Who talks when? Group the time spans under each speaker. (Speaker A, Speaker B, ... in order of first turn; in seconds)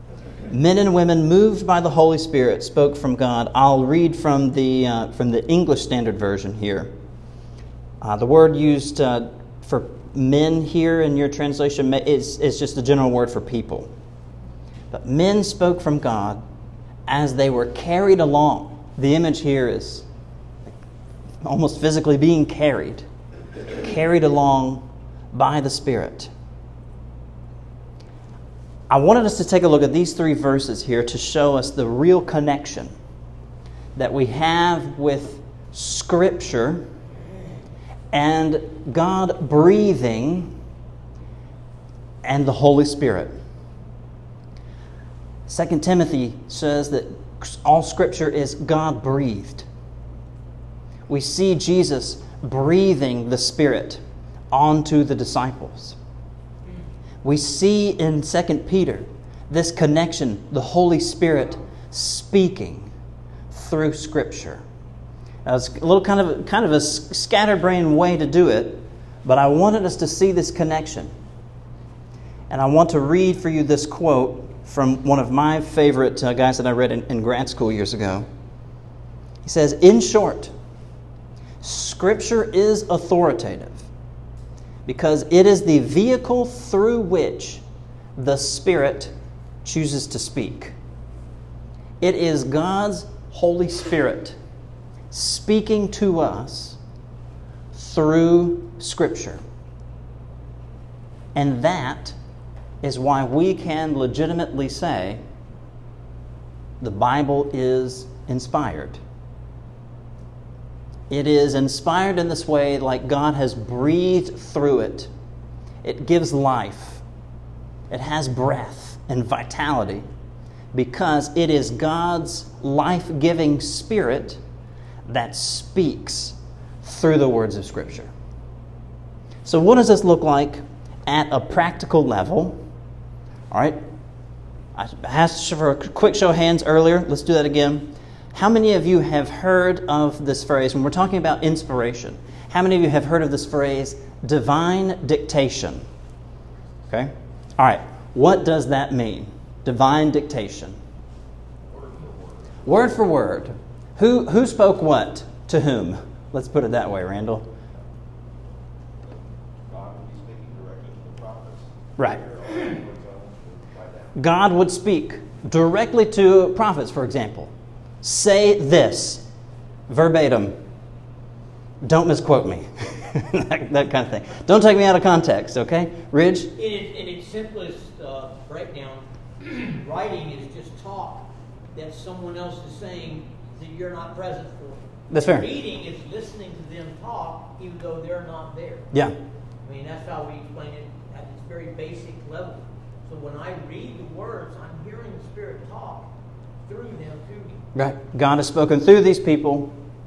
Speaker A: 0.5-6.9, 8.0-13.9, 14.9-16.4, 17.1-20.1, 21.4-23.1, 23.7-26.3, 28.9-32.9, 34.0-36.9, 38.1-40.6, 42.2-43.4, 45.5-49.6, 51.1-56.0, 57.2-62.9, 63.5-64.6, 65.4-71.1, 72.5-78.3, 79.4-80.5, 81.6-83.8, 84.8-87.6, 88.2-89.1, 89.6-90.8, 92.0-94.4, 95.1-96.8, 97.7-99.4, 101.3-102.2, 102.8-105.2, 106.8-109.0, 111.1-115.1, 115.8-117.0, 117.9-120.0, 120.7-124.4, 125.1-128.1, 129.4-132.6, 133.5-133.8, 134.7-145.8, 146.9-150.8, 152.6-157.5, 162.0-162.2, 164.1-167.5, 168.0-169.2, 169.9-170.6, 171.8-176.5, 185.1-185.5, 197.7-199.7
Speaker B: 151.7-152.7, 159.0-164.2
Speaker C: 176.6-188.9, 189.6-196.1, 196.6-197.6